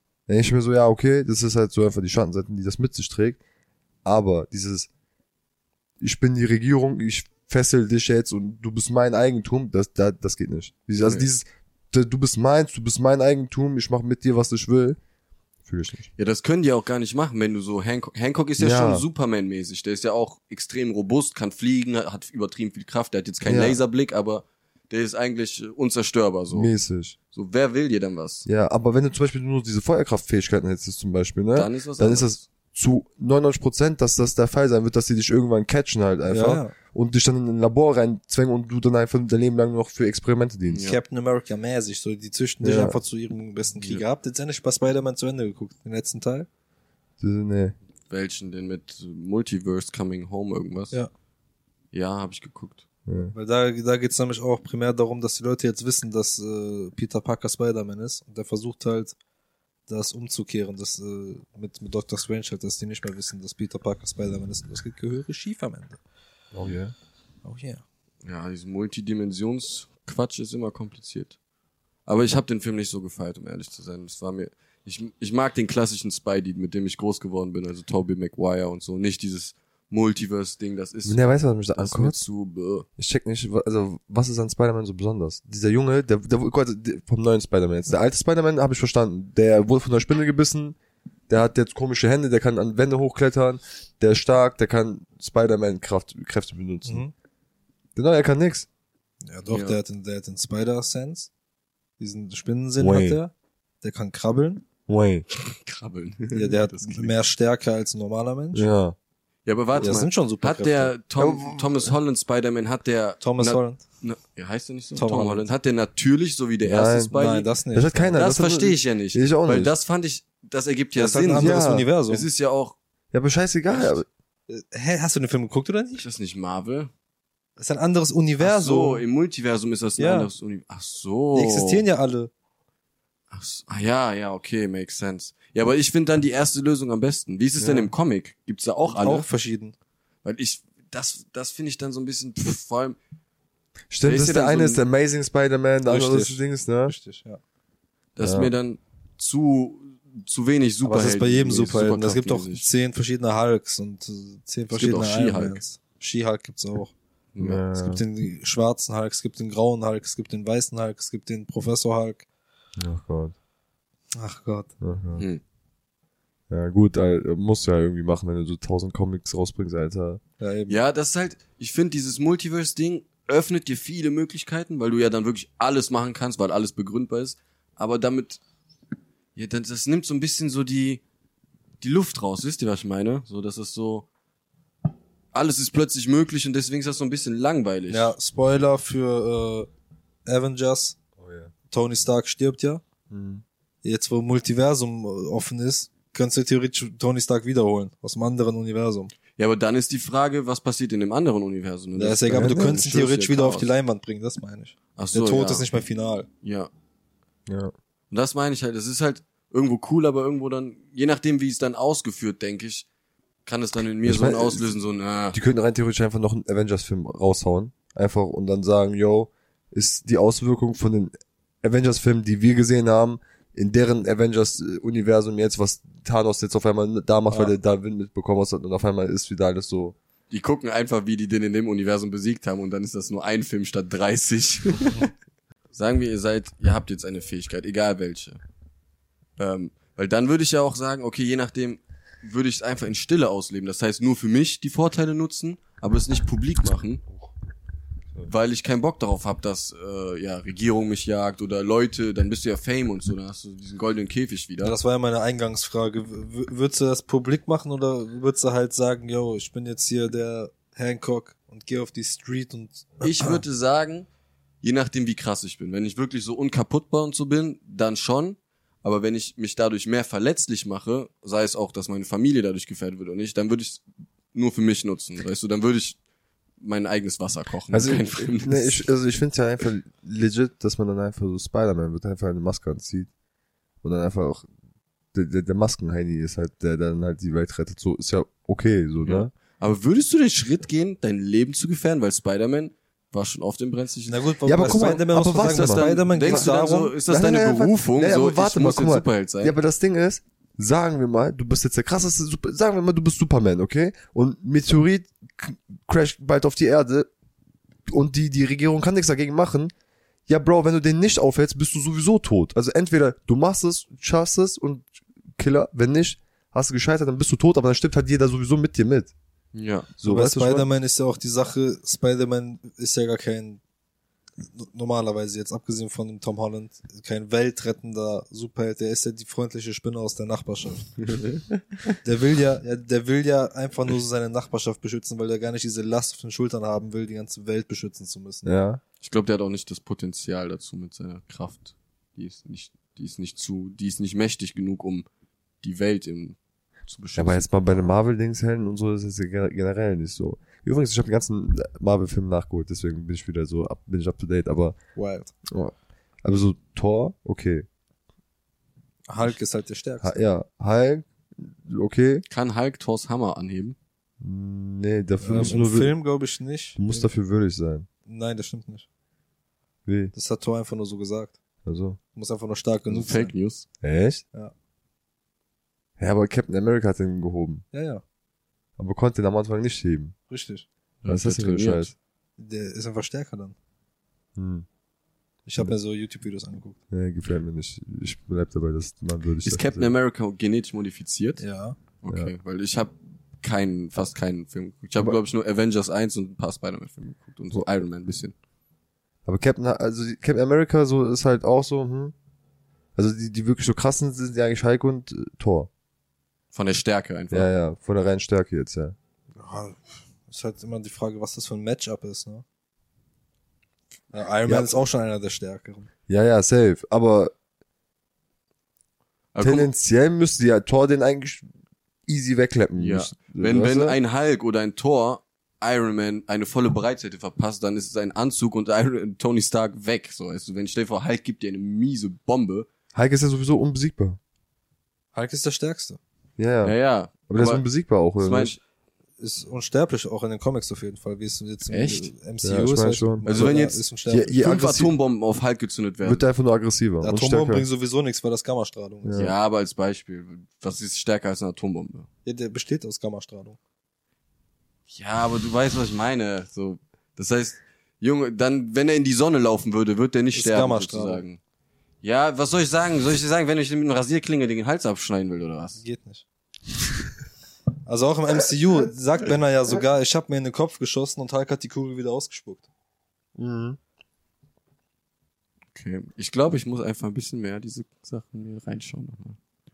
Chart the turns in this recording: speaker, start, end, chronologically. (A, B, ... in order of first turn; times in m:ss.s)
0:00.3-0:03.4 A
0:04.0-0:04.9 A
0:06.0-0:15.0 A
0:15.6-0:16.1 A
0:16.2-0:26.7 B
0:18.6-0:19.0 A
0:23.4-0:23.8 A
0:26.5-0:27.2 A
0:27.3-0:28.4 B
0:28.4-0:40.9 A
0:31.5-0:32.4 B
0:36.3-0:36.7 C
0:40.7-0:41.0 B
0:40.8-0:46.5 C
0:42.6-0:43.0 A
0:43.8-0:44.0 B
0:47.2-0:47.7 A
0:48.1-0:51.0 B
0:51.9-0:52.8 B
0:53.1-0:53.3 A
0:53.3-0:59.1 C
0:59.9-1:06.0 C
1:06.5-1:06.9 A
1:07.4-1:07.8 C
1:08.2-1:11.4 B
1:12.1-1:21.2 B
1:21.1-1:22.2 A
1:21.8-1:22.9 B
1:23.0-1:30.8 A
1:31.3-1:37.0 A
1:36.8-1:37.1 C
1:38.0-1:38.7 A
1:39.2-1:41.3 C
1:39.5-1:39.8 B
1:42.0-1:44.6 C
1:42.8-1:43.2 A
1:44.9-1:45.2 A
1:45.4-1:47.1 B
1:46.3-1:48.7 C
1:48.5-1:49.0 A
1:49.4-1:57.5 B
1:49.8-1:50.9 C
1:51.2-1:51.9 A
1:53.2-1:53.8 C
1:54.9-1:55.5 C
1:56.6-1:57.1 A
1:57.1-1:58.2 C
1:57.7-1:59.7 A
1:58.1-2:02.8 B
2:01.0-2:02.2 C
2:01.3-2:01.9 A
2:03.1-2:04.1 A
2:03.7-2:04.0 B
2:04.5-2:06.1 C
2:06.0-2:06.9 B
2:07.6-2:09.0 C
2:08.4-2:11.9 B
2:10.0-2:10.3 C
2:11.3-2:12.3 C
2:13.3-2:19.3 B
2:18.9-2:19.7 C
2:20.2-2:23.0 B
2:23.9-2:26.9 A
2:24.0-2:24.8 B
2:25.8-2:27.4 C
2:28.2-2:32.7 B
2:28.2-2:28.5 A
2:30.8-2:36.9 C
2:34.7-2:35.6 B
2:37.4-2:37.6 B
2:37.4-2:38.0 A
2:37.7-2:42.2 C
2:42.8-2:43.3 A
2:44.1-2:44.7 C
2:44.8-2:45.2 A
2:46.5-2:50.2 A
2:50.4-2:50.8 C
2:50.7-2:58.4 B
2:59.4-3:01.0 B
3:01.8-3:04.1 B
3:05.3-3:08.1 B
3:07.9-3:09.7 C
3:10.2-3:11.0 C
3:11.2-3:11.5 A
3:11.7-3:12.8 C
3:13.1-3:13.4 A
3:13.8-3:19.1 C
3:19.4-3:23.7 B
3:22.0-3:26.3 C
3:22.3-3:22.8 A
3:25.0-3:25.7 B
3:26.4-3:26.7 B
3:27.5-3:27.7 A
3:28.1-3:32.9 B
3:33.4-3:35.4 B
3:34.0-3:34.6 A
3:35.3-3:41.1 A
3:41.6-3:50.0 A
3:50.3-3:55.1 B
3:55.7-3:58.4 B
3:59.4-4:07.0 B
4:08.2-4:14.8 B
4:14.6-4:23.4 C
4:23.0-4:24.1 B
4:24.6-4:33.8 B
4:34.3-4:36.0 B
4:36.6-4:38.9 B
4:37.7-4:43.1 A
4:43.8-4:44.5 A
4:45.1-4:49.3 A
4:49.0-4:59.5 B
4:54.1-4:56.9 C
4:54.4-4:56.5 A
4:57.1-5:07.1 A
5:07.9-5:09.7 A
5:10.3-5:19.1 A
5:19.5-5:19.9 B
5:20.0-5:20.6 A
5:20.0-5:23.6 C
5:24.5-5:30.9 C
5:31.0-5:31.9 B
5:32.0-5:38.5 C
5:38.4-5:38.8 A
5:39.0-5:45.0 B
5:45.6-5:47.9 B
5:47.2-5:54.8 A
5:55.0-5:55.3 C
5:55.5-5:57.6 A
5:59.1-6:00.2 C
6:00.0-6:02.2 A
6:02.3-6:03.8 B
6:04.2-6:05.9 A
6:05.2-6:07.1 C
6:06.8-6:07.9 A
6:08.1-6:08.9 C
6:09.9-6:10.1 A
6:10.1-6:11.4 C
6:11.6-6:12.0 A
6:12.1-6:13.3 C
6:12.9-6:13.6 B
6:13.8-6:14.2 A
6:16.0-6:17.6 A
6:17.7-6:18.0 C
6:18.8-6:20.1 A
6:20.3-6:20.6 C
6:21.0-6:21.9 B
6:21.1-6:21.9 A
6:22.4-6:23.6 C
6:24.4-6:24.6 A
6:25.4-6:26.8 C
6:26.9-6:29.9 A
6:29.4-6:31.4 B
6:31.4-6:31.8 C
6:32.0-6:38.3 B
6:39.2-6:42.1 A
6:43.0-6:45.7 A
6:46.5-6:47.5 B
6:47.3-6:49.0 A
6:49.4-6:52.4 C
6:54.1-6:55.9 C
6:54.5-6:54.7 A
6:56.1-6:57.3 A
6:59.4-6:59.7 B
6:59.4-7:01.4 A
7:02.1-7:04.0 A
7:02.8-7:12.7 B
7:12.9-7:14.2 A
7:15.1-7:16.0 C
7:16.4-7:16.7 A
7:16.6-7:17.6 B
7:17.3-7:18.5 A
7:18.2-7:18.6 B
7:19.2-7:24.4 C
7:21.7-7:22.1 B
7:22.4-7:23.5 A
7:23.2-7:23.8 B
7:24.1-7:24.9 A
7:24.4-7:26.2 B
7:26.0-7:27.6 A
7:27.0-7:29.2 C
7:29.0-7:29.4 A
7:29.1-7:32.1 B
7:32.2-7:33.6 C
7:34.9-7:41.4 B
7:40.4-7:41.2 C
7:42.0-7:45.8 B
7:45.8-7:46.2 C
7:47.9-7:52.6 C
7:53.4-7:53.8 A
7:55.7-7:59.4 B